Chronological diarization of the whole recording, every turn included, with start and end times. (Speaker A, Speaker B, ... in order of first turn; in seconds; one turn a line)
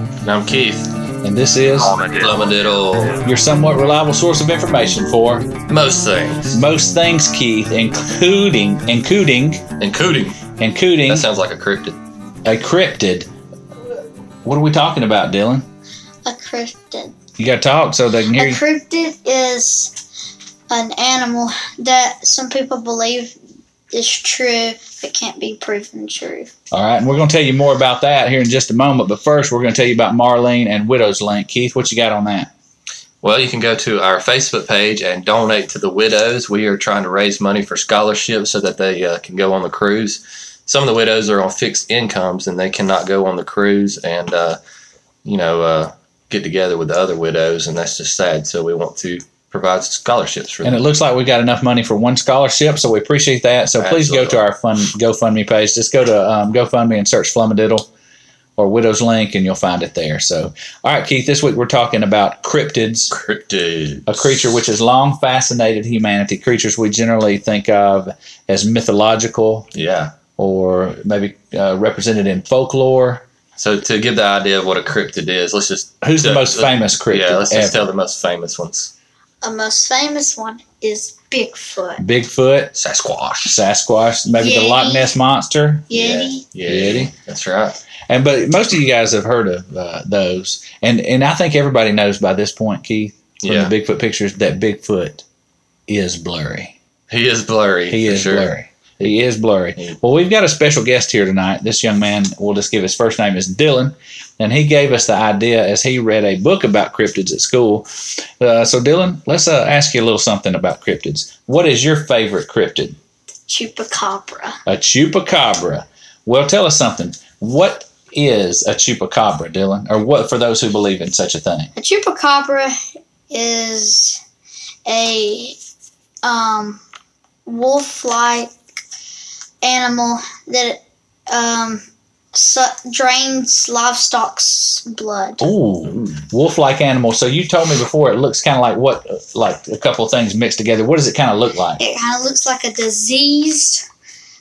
Speaker A: 0.2-0.9
Speaker B: 1.2-2.1
Speaker A: 1.8-3.2
Speaker B: 3.2-5.5
Speaker A: 5.7-6.6
Speaker B: 6.5-9.6
Speaker A: 9.8-10.4
Speaker B: 10.6-11.3
Speaker A: 11.1-12.0
Speaker B: 12.4-13.3
Speaker B: 14.4-15.7
Speaker C: 16.2-17.1
Speaker B: 17.4-18.6
Speaker C: 18.4-19.9
Speaker C: 20.7-23.4
Speaker C: 23.9-26.5
Speaker B: 26.7-32.5
Speaker A: 33.2-44.6
Speaker A: 45.2-50.9
Speaker B: 50.6-57.9
Speaker A: 53.8-54.4
Speaker B: 58.6-63.1
Speaker A: 63.1-64.3
Speaker B: 64.1-69.7
Speaker A: 69.7-70.2
Speaker B: 70.4-73.2
Speaker A: 73.6-78.9
Speaker B: 76.0-77.9
Speaker C: 79.4-82.0
Speaker B: 82.0-82.8
Speaker A: 82.8-83.6
Speaker B: 83.5-85.9
Speaker C: 84.4-85.1
Speaker C: 85.9-86.5
Speaker A: 85.9-87.8
Speaker B: 86.6-87.1
Speaker B: 88.1-95.2
Speaker A: 93.4-93.7
Speaker B: 95.9-96.8
Speaker A: 97.1-98.5
Speaker B: 97.9-113.0
Speaker C: 113.5-114.6
Speaker B: 114.7-121.7
Speaker C: 121.8-122.8
Speaker C: 123.3-124.2
Speaker C: 124.9-125.6
Speaker C: 126.2-126.8
Speaker C: 127.5-128.5
Speaker C: 129.6-131.8
Speaker C: 132.3-135.5
Speaker B: 135.4-141.8
Speaker C: 141.8-143.8